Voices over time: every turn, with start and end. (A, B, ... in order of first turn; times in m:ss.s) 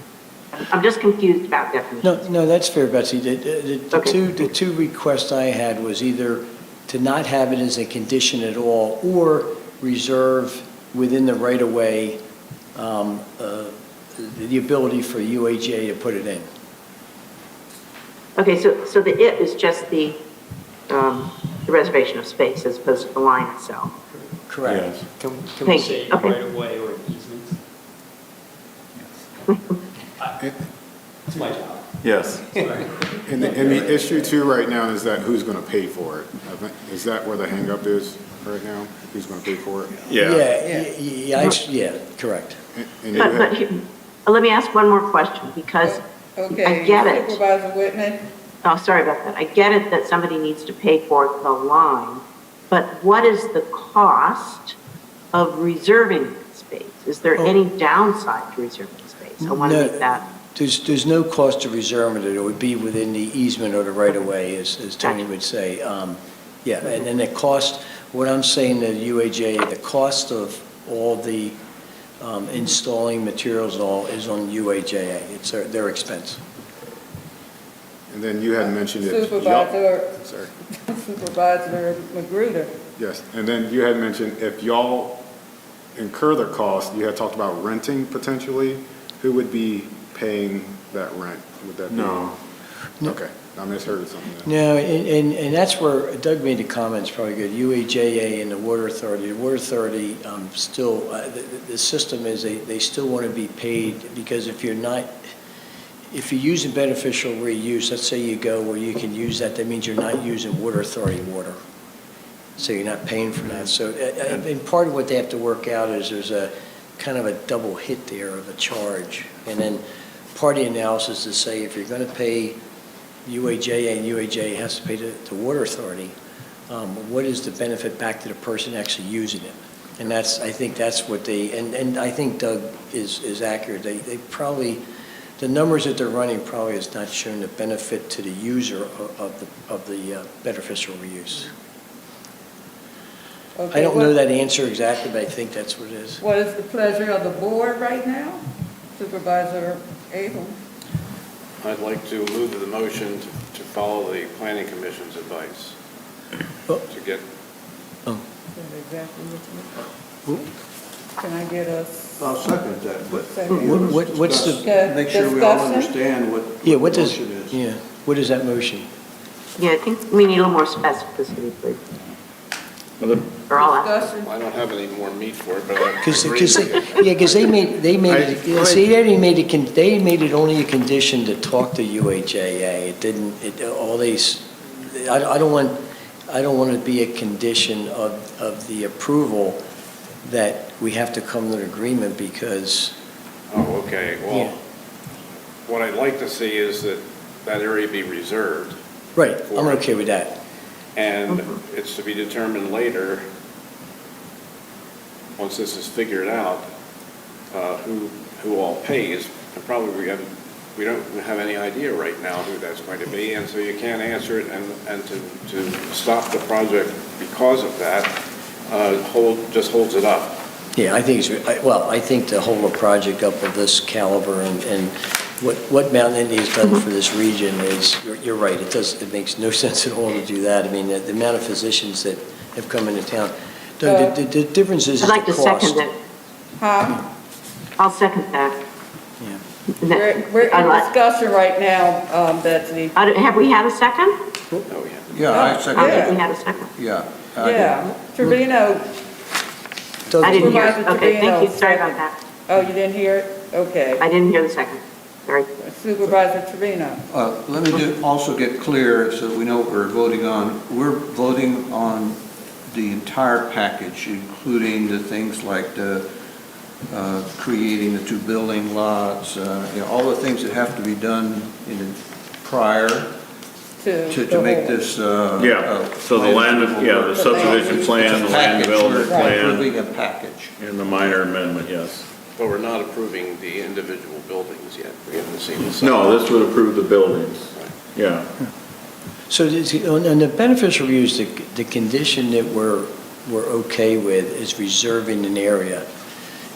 0:00.6-0:02.2 A
0:02.0-0:12.2 B
0:12.8-0:16.5 B
0:18.4-0:20.2 A
0:20.9-0:23.9 A
0:24.5-0:24.9 B
0:24.6-0:25.1 C
0:25.1-0:27.6 D
0:25.6-0:26.3 A
0:31.3-0:31.9 D
0:32.0-0:32.7 C
0:32.5-0:34.2 D
0:33.2-0:40.1 E
0:40.0-0:40.5 C
0:40.1-0:42.6 B
0:40.5-0:40.9 F
0:42.7-0:43.5 E
0:43.1-0:46.0 A
0:45.8-0:48.3 F
0:46.5-0:47.4 A
0:48.6-0:54.8 A
0:55.3-1:00.2 A
0:59.4-1:11.6 B
1:12.2-1:16.4 B
1:18.1-1:20.5 E
1:19.0-1:22.7 F
1:23.0-1:25.2 E
1:25.9-1:32.4 E
1:31.9-1:32.3 C
1:33.0-1:34.5 E
1:34.4-1:45.2 B
1:46.1-1:51.6 B
1:52.6-2:02.6 B
2:03.2-2:06.1 B
2:06.7-2:14.8 B
2:15.4-2:21.5 B
2:23.6-2:24.2 F
2:23.7-2:26.2 B
2:26.2-2:28.4 F
2:28.9-2:30.6 F
2:31.6-2:35.8 G
2:36.8-2:37.2 G
2:38.5-2:39.9 F
2:41.2-2:42.2 F
2:42.2-2:47.6 H
2:43.3-2:43.7 F
2:43.6-2:44.6 B
2:44.6-2:45.9 F
2:46.6-2:48.9 B
2:49.6-2:51.8 A
2:53.0-2:53.3 C
2:53.5-2:53.9 A
2:53.5-2:54.3 F
2:54.2-2:57.5 G
2:56.0-3:09.6 B
2:58.1-2:58.8 E
3:10.2-3:12.9 B
3:13.5-3:14.5 G
3:15.6-3:18.8 G
3:19.2-3:20.4 B
3:19.5-3:19.8 G
3:21.0-3:23.2 G
3:25.4-3:26.6 G
3:27.5-3:40.4 G
3:40.8-3:55.8 B
3:53.8-3:54.1 F
3:55.0-3:55.9 A
3:56.6-3:57.1 F
3:57.8-3:58.6 A
3:59.8-4:00.9 A
3:59.8-4:03.0 F
4:02.9-4:04.2 A
4:04.7-4:05.2 G
4:05.1-4:07.9 H
4:05.3-4:06.2 F
4:05.7-4:06.7 A
4:07.4-4:08.9 F
4:10.1-4:10.7 B
4:10.2-4:12.2 A
4:10.2-4:14.0 F
4:14.0-4:15.5 A
4:15.6-4:17.0 F
4:17.1-4:26.1 H
4:26.9-4:33.1 H
4:33.8-4:34.8 F
4:34.1-4:40.5 H
4:35.4-4:39.7 C
4:37.1-4:38.0 F
4:39.0-4:39.3 F
4:40.6-4:42.0 C
4:42.4-4:46.3 G
4:45.8-4:48.3 C
4:49.3-4:55.8 B